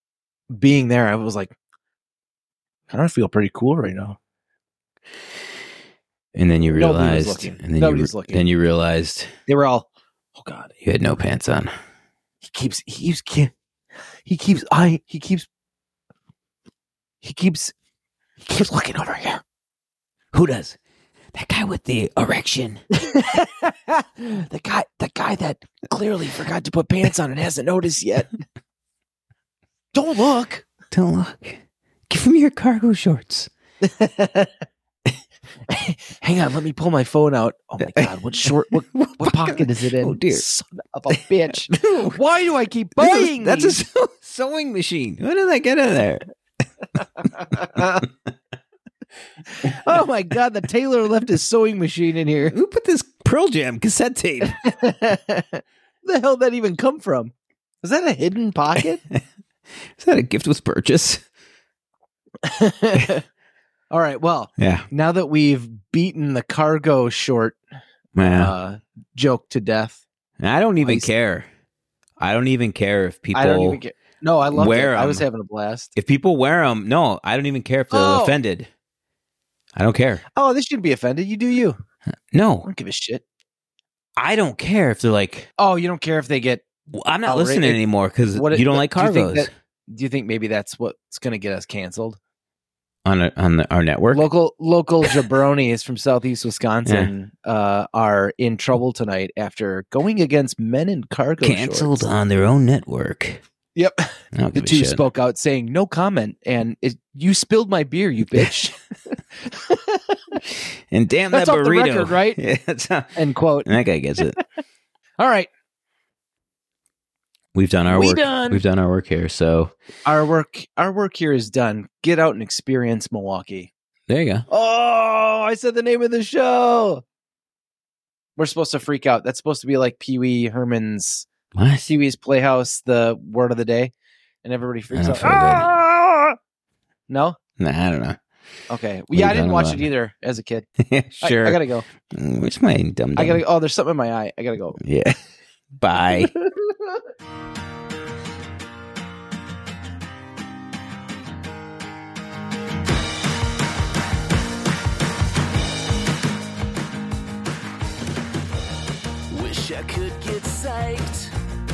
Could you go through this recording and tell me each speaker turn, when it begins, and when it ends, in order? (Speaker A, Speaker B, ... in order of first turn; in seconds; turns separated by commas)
Speaker A: 0.5-1.5, Speaker A: 2.9-4.2, Speaker B: 6.3-9.3, Speaker A: 6.7-8.4, Speaker A: 9.5-10.7, Speaker B: 10.8-11.7, Speaker A: 12.4-13.5, Speaker A: 14.2-15.5, Speaker A: 17.2-17.7, Speaker A: 18.4-19.4, Speaker B: 20.3-20.8, Speaker B: 21.3-22.8, Speaker A: 22.9-28.3, Speaker A: 29.9-30.6, Speaker B: 30.9-33.5, Speaker A: 33.8-34.5, Speaker A: 35.7-43.8, Speaker B: 37.8-40.4, Speaker B: 41.1-42.2, Speaker B: 43.0-46.3, Speaker A: 47.3-48.0, Speaker A: 49.5-52.5, Speaker B: 52.5-54.6, Speaker A: 54.6-59.0, Speaker B: 60.0-61.2, Speaker A: 62.4-63.2, Speaker A: 63.9-67.6, Speaker B: 64.6-64.9, Speaker B: 68.2-68.5, Speaker A: 68.2-70.0, Speaker B: 70.4-71.5, Speaker A: 70.8-71.1, Speaker B: 72.2-73.8, Speaker A: 73.3-75.9, Speaker B: 74.5-75.2, Speaker B: 76.0-78.7, Speaker A: 77.9-78.3, Speaker B: 79.8-80.2, Speaker A: 80.3-81.8, Speaker B: 82.3-82.7, Speaker A: 82.7-83.2, Speaker B: 84.2-85.5, Speaker A: 85.6-86.6, Speaker B: 86.9-89.5, Speaker A: 87.2-92.2, Speaker B: 93.0-94.3, Speaker A: 94.1-102.1, Speaker B: 96.8-97.1, Speaker B: 101.4-103.4, Speaker A: 103.7-110.4, Speaker B: 104.3-105.0, Speaker B: 110.9-113.1, Speaker A: 111.3-112.4, Speaker A: 113.2-113.7, Speaker B: 113.7-114.4, Speaker A: 115.2-115.5, Speaker B: 117.5-119.7, Speaker A: 117.9-118.6, Speaker A: 120.0-123.7, Speaker B: 124.1-124.5, Speaker A: 124.5-127.0, Speaker A: 128.4-131.3, Speaker B: 131.5-131.9, Speaker A: 131.8-133.9, Speaker A: 134.4-136.3, Speaker B: 134.9-135.7, Speaker A: 137.1-137.4, Speaker B: 137.6-138.2, Speaker A: 138.7-140.7, Speaker B: 139.1-139.9, Speaker B: 140.8-143.4, Speaker A: 141.2-141.8, Speaker A: 143.2-144.8, Speaker B: 144.8-145.2, Speaker B: 145.8-146.3, Speaker A: 146.2-147.0, Speaker C: 159.3-161.3